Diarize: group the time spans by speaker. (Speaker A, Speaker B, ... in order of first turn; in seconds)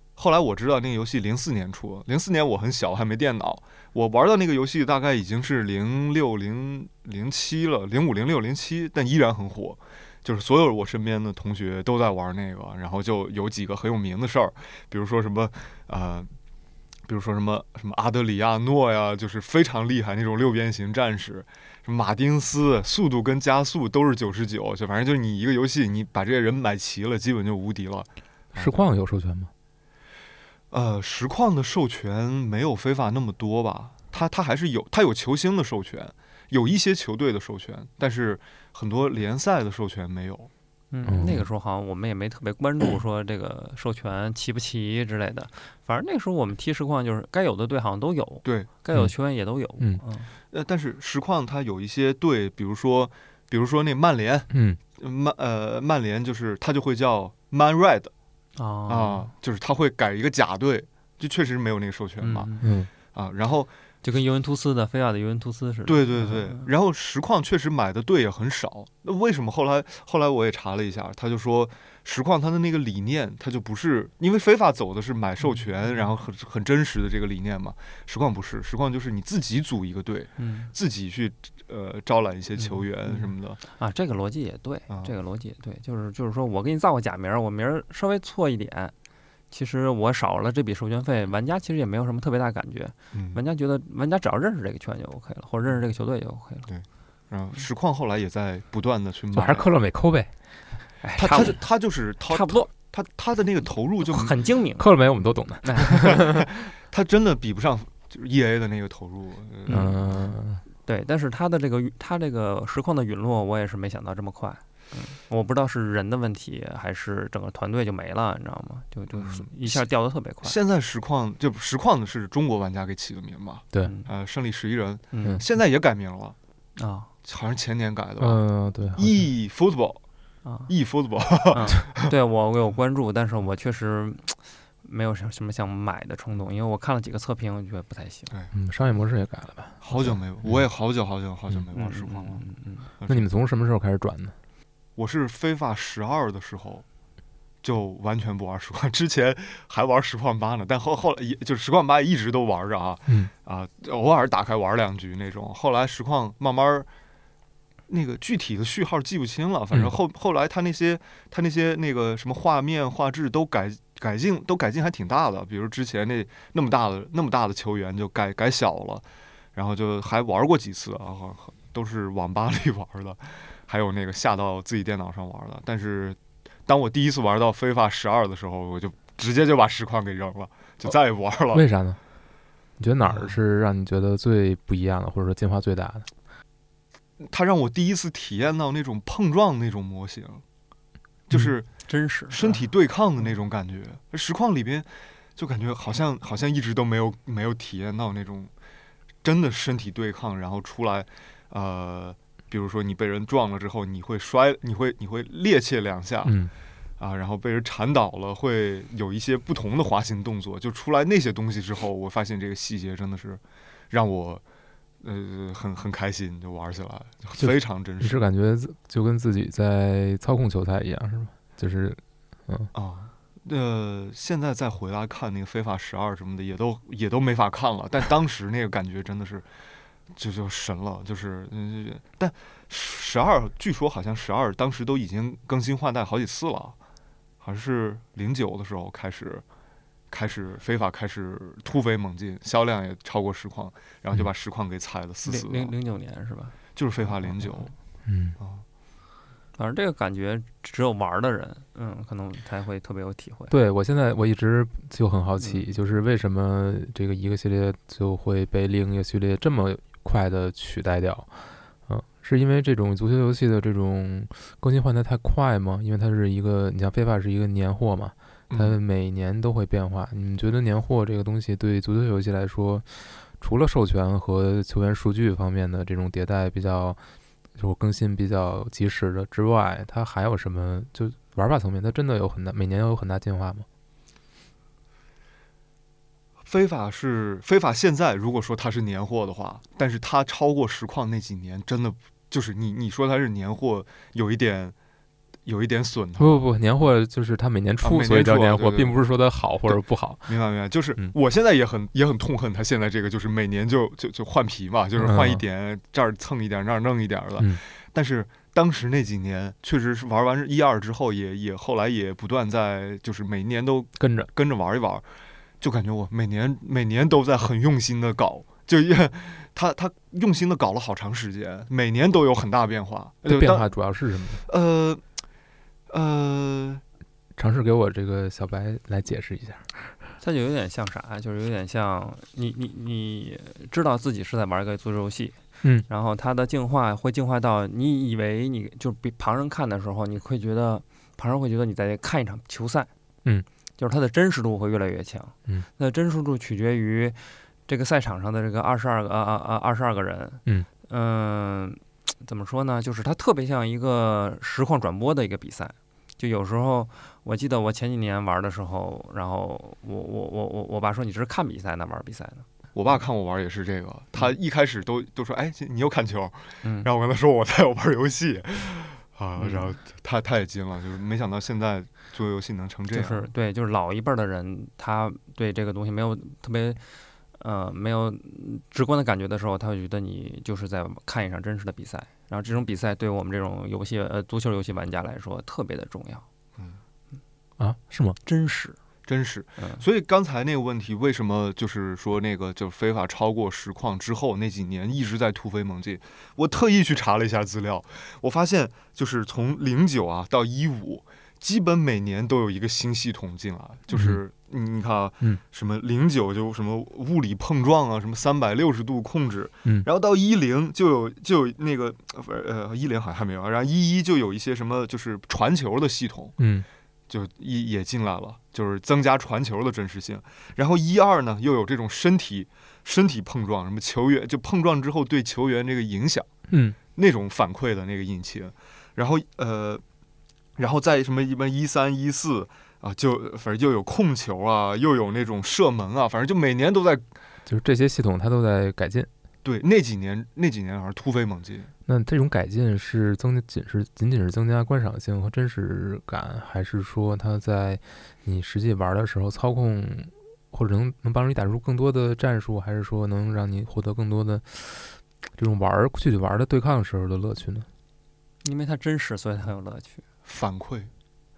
Speaker A: 0.1-16.3, 17.1-28.9, 30.7-40.5, 50.5-58.1, 58.9-62.5, 63.1-63.7, 65.8-83.6, 84.9-85.1, 93.1-93.4, 96.7-99.7, 101.2-104.4, 105.9-110.3, 119.1-119.8, 120.4-126.3, 127.2-128.4, 128.9-130.0, 130.7-132.1, 139.8-142.4, 143.0-143.2, 145.0-146.8, 147.6-156.9, 157.9-181.7, 187.2-190.4, 191.3-191.7, 192.3-198.5, 199.2-206.4, 207.0-214.4, 215.0-218.2, 222.7-229.5, 230.1-236.8, 237.4-239.4, 240.1-245.7, 246.7-247.7, 248.4-248.6, 268.5-268.8, 286.4-294.7, 295.4-296.4, 297.8-299.0, 299.6-315.0, 315.6-323.7, 324.4-325.0, 325.9-326.8, 362.7-373.3, 389.1-416.4, 417.1-426.3, 426.9-429.8, 430.6-437.1, 439.4-441.7, 460.2-460.9
Speaker B: 28.5-29.5, 41.0-41.4, 54.5-54.8, 62.6-62.9, 99.3-100.3, 104.8-106.5, 109.7-110.6, 128.2-129.2, 138.5-139.8, 143.1-144.3, 181.5-182.0, 182.8-186.1, 206.2-206.5, 217.4-222.7, 248.0-248.4, 253.5-261.3, 261.9-277.0, 277.6-283.7, 296.2-300.4, 304.9-305.4, 314.0-314.3, 323.2-324.4, 327.4-329.8, 387.6-388.2, 403.9-404.2, 416.4-416.6, 426.5-426.8, 437.4-439.1, 441.9-457.7
Speaker C: 40.9-50.3, 58.5-59.3, 62.2-62.8, 64.0-66.7, 80.4-80.7, 82.6-88.9, 89.5-96.7, 101.0-101.6, 102.3-102.7, 104.0-104.8, 105.6-106.0, 109.7-110.0, 110.8-120.6, 123.8-124.1, 125.1-125.4, 126.8-127.1, 130.4-130.7, 131.5-138.3, 139.9-140.2, 141.7-142.9, 191.8-192.7, 245.2-246.6, 249.5-253.5, 330.2-342.9, 343.8-362.4, 366.6-366.9, 369.4-369.7, 372.9-386.2, 388.2-388.8, 389.6-389.8, 458.4-460.0